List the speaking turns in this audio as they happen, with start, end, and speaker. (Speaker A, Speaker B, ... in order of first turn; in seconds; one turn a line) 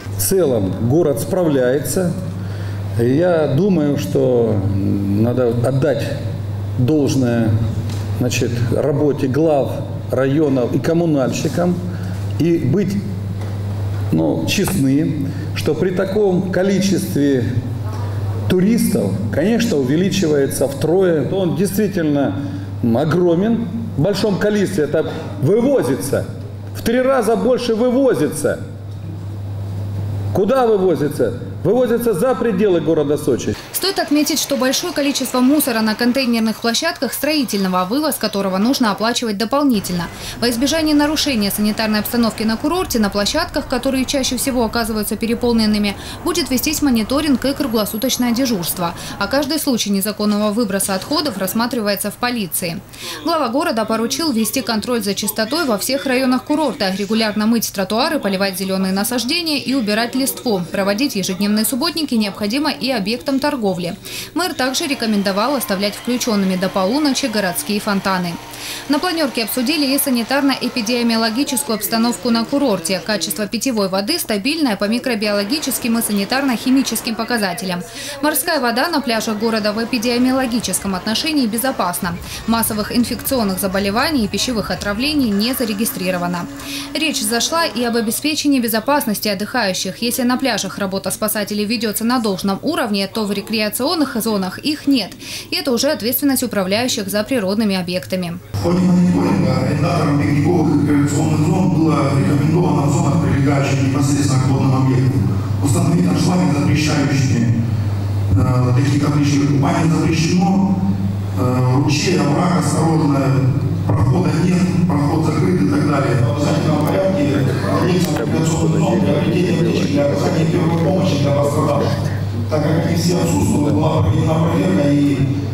Speaker A: 0.2-2.1
Speaker A: 3.0-6.1
Speaker A: 6.8-7.5
Speaker A: 8.2-11.8
Speaker A: 12.4-13.0
Speaker A: 14.1-17.4
Speaker A: 18.5-28.6
Speaker A: 30.3-33.5
Speaker B: 33.7-98.4
Speaker C: 98.6-107.5
Speaker C: 108.3-110.7
Speaker C: 111.3-121.9
Speaker A: 117.6-120.9
Speaker C: 122.5-125.2
Speaker A: 123.5-123.8